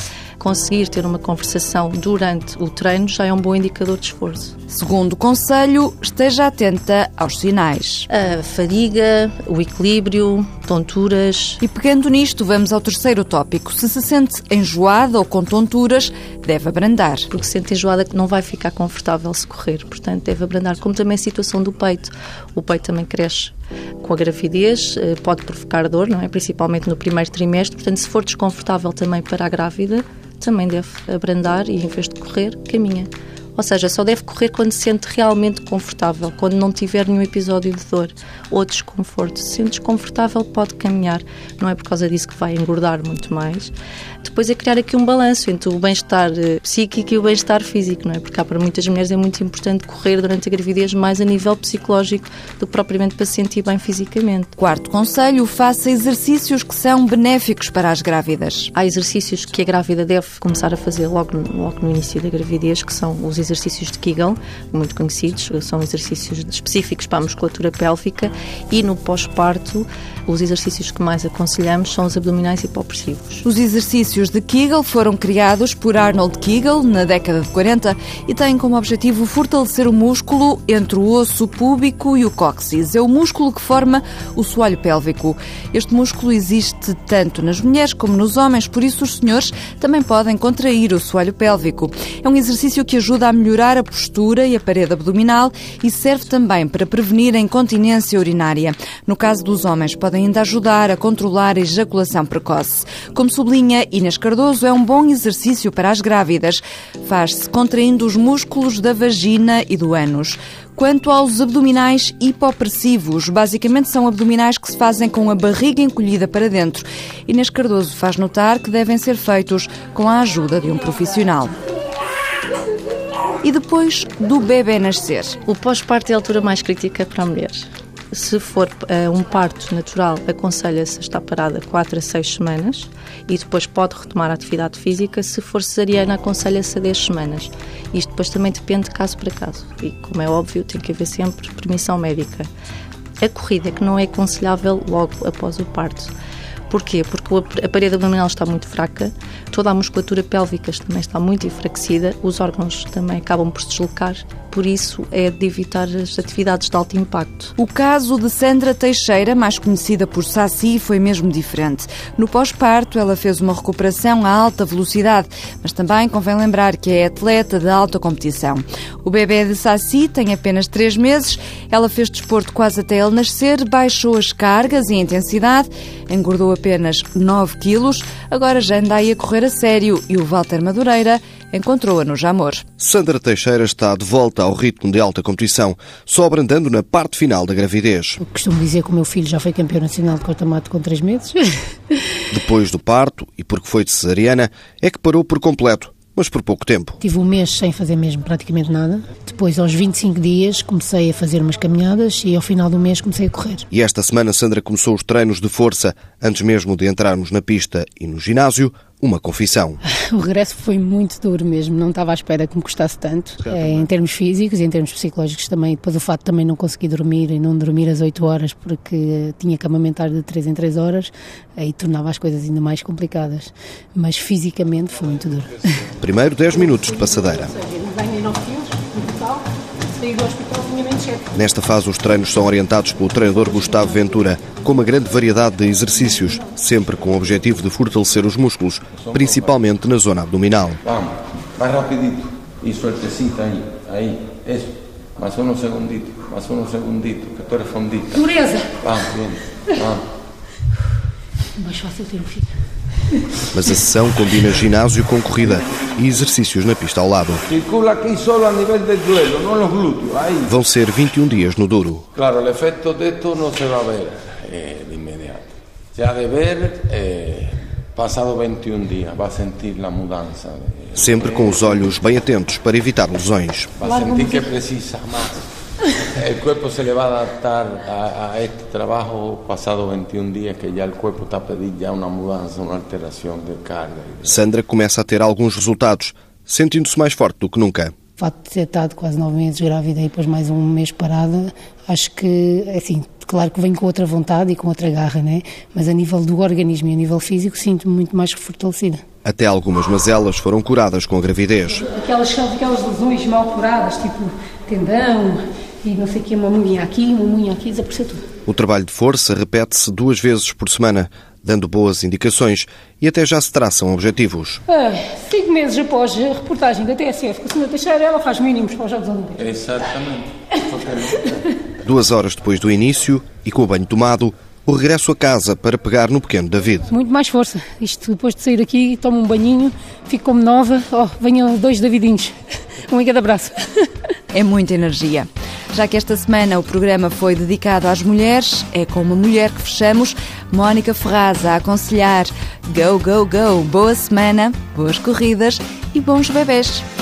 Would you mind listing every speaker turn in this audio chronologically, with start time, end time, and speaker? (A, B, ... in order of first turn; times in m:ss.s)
0:00.4-0:04.6 A
0:04.7-0:08.1 B
0:08.1-0:11.6 A
0:11.6-0:17.3 B
0:17.3-0:54.6 A
0:54.6-0:58.7 B
0:58.7-1:13.4 A
1:13.4-2:01.6 B
2:03.4-2:05.4 B
2:05.5-2:22.5 A
2:23.2-2:26.1 A
2:26.7-2:37.5 A
2:37.6-3:02.6 B
3:02.8-3:08.2 C
3:08.2-3:12.0 D
3:12.3-3:17.0 C
3:17.0-3:23.6 D
3:23.7-3:29.8 C
3:29.9-3:45.8 D
3:33.5-3:33.8 C
3:46.0-3:47.5 C
3:46.8-3:51.2 D
3:51.3-4:00.8 C
3:59.0-3:59.5 E
4:00.8-4:08.3 E
4:08.2-4:08.8 D
4:08.8-4:10.0 E
4:11.6-4:12.5 D
4:13.5-4:17.4 C
4:17.5-4:20.5 E
4:20.5-4:22.0 C
4:22.2-4:25.4 E
4:26.0-4:31.8 E
4:31.0-4:33.8 C
4:33.8-4:35.4 E
4:36.1-4:44.4 E
4:44.3-4:47.9 C
4:48.2-4:59.0 D
4:59.2-5:01.8 C
5:01.8-5:08.2 D
5:08.5-5:14.6 C
5:14.7-5:19.4 D
5:19.4-5:21.4 E
5:21.8-5:26.9 C
5:26.9-5:32.3 D
5:32.9-5:33.9 D
5:34.3-5:46.8 B